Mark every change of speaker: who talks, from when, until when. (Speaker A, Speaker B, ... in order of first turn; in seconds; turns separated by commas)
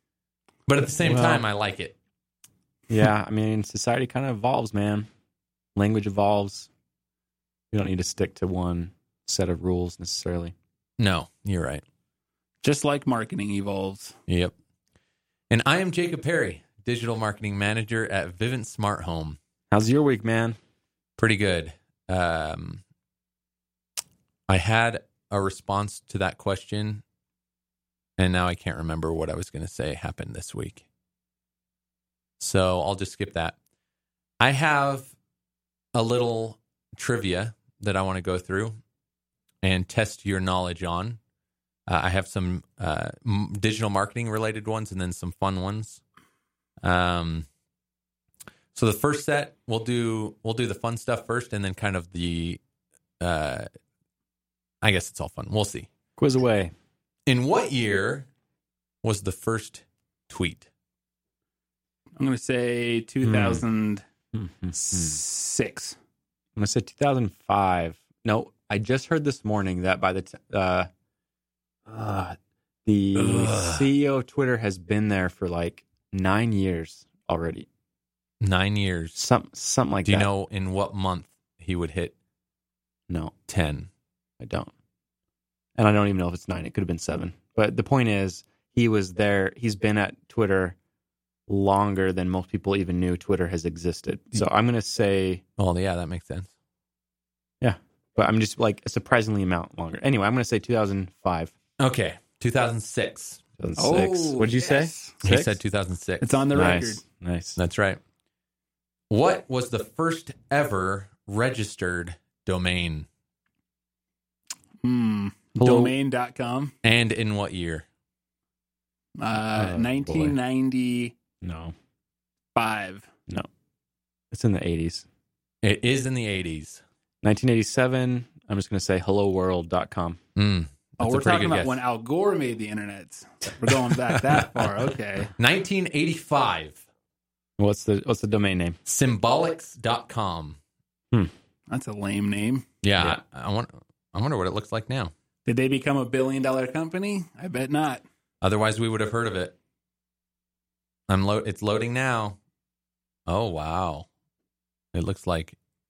Speaker A: 0.7-2.0, Speaker B: 1.0-1.4, Speaker B: 2.9-5.1, Speaker B: 5.8-6.7, Speaker B: 7.7-10.6, Speaker A: 11.0-11.8, Speaker C: 12.6-14.2, Speaker A: 14.3-14.5, Speaker A: 15.5-19.4, Speaker B: 19.7-20.6, Speaker A: 21.2-22.8, Speaker A: 24.5-27.0, Speaker A: 28.2-30.8, Speaker A: 32.4-33.6, Speaker A: 34.4-35.1, Speaker A: 36.0-38.8, Speaker A: 39.6-41.2, Speaker A: 41.9-46.0, Speaker A: 46.8-47.5, Speaker A: 48.7-52.6, Speaker A: 53.2-53.7, Speaker A: 54.8-55.9, Speaker B: 56.2-56.7, Speaker A: 57.3-58.3, Speaker A: 59.0-60.7, Speaker C: 62.2-64.0, Speaker B: 63.2-63.6, Speaker B: 64.3-65.2, Speaker C: 64.7-66.0, Speaker B: 66.6-70.9, Speaker B: 71.9-77.7, Speaker A: 73.2-73.9, Speaker A: 78.4-79.2, Speaker B: 79.2-80.3, Speaker A: 80.1-82.1, Speaker A: 83.5-83.9, Speaker B: 84.4-84.7, Speaker B: 85.8-90.8, Speaker B: 91.5-95.4, Speaker A: 95.6-96.5, Speaker B: 97.6-101.5, Speaker A: 101.8-103.4, Speaker B: 103.6-105.6, Speaker C: 103.8-105.2, Speaker A: 105.2-106.4, Speaker C: 106.2-107.0, Speaker B: 106.5-107.6, Speaker A: 107.6-108.0, Speaker A: 109.1-113.1, Speaker C: 114.8-116.7, Speaker B: 115.6-116.0, Speaker A: 116.8-117.9, Speaker C: 119.2-121.2, Speaker B: 119.5-120.3, Speaker B: 121.4-121.7, Speaker C: 122.5-123.1, Speaker B: 124.3-125.1, Speaker A: 125.6-126.8, Speaker B: 127.2-130.2, Speaker A: 130.4-131.8, Speaker C: 131.0-135.3, Speaker A: 135.4-136.8, Speaker B: 137.6-138.8, Speaker A: 138.9-140.6, Speaker C: 141.7-142.7, Speaker A: 142.8-145.1, Speaker C: 145.5-148.0, Speaker A: 148.4-149.6, Speaker A: 151.1-152.4, Speaker A: 153.3-154.1, Speaker A: 154.9-155.6